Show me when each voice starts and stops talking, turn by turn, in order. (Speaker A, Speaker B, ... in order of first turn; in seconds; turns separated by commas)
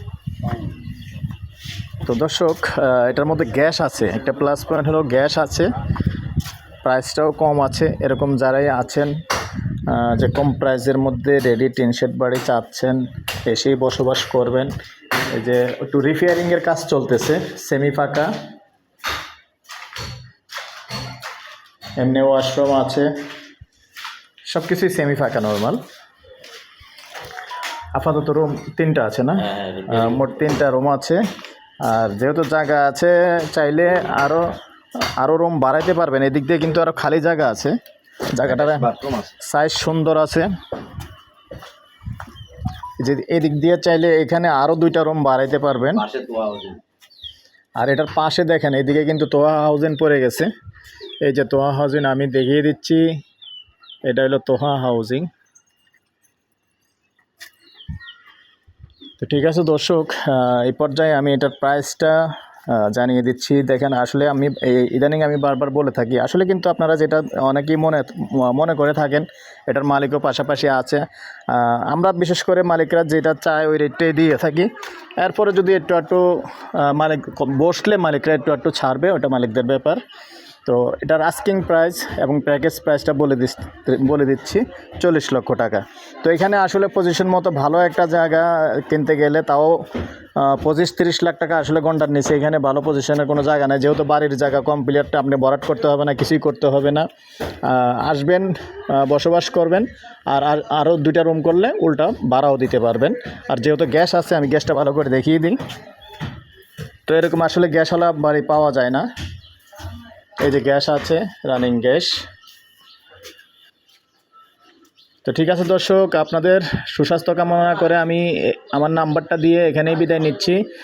Speaker A: 2.0-5.7, Speaker A: 6.8-9.2, Speaker A: 9.9-14.7, Speaker A: 15.3-18.3, Speaker A: 22.0-23.1, Speaker A: 24.5-25.8, Speaker A: 27.9-31.2, Speaker B: 29.5-30.2, Speaker A: 31.8-37.8, Speaker A: 38.3-38.9, Speaker B: 38.4-39.3, Speaker A: 39.4-40.5, Speaker A: 43.0-46.0, Speaker B: 46.0-46.8, Speaker A: 47.8-50.5, Speaker A: 51.2-53.1, Speaker A: 54.1-55.3, Speaker A: 59.2-80.0, Speaker A: 80.7-97.1, Speaker A: 97.6-105.6, Speaker A: 107.1-109.1, Speaker A: 110.4-112.2, Speaker A: 115.3-120.6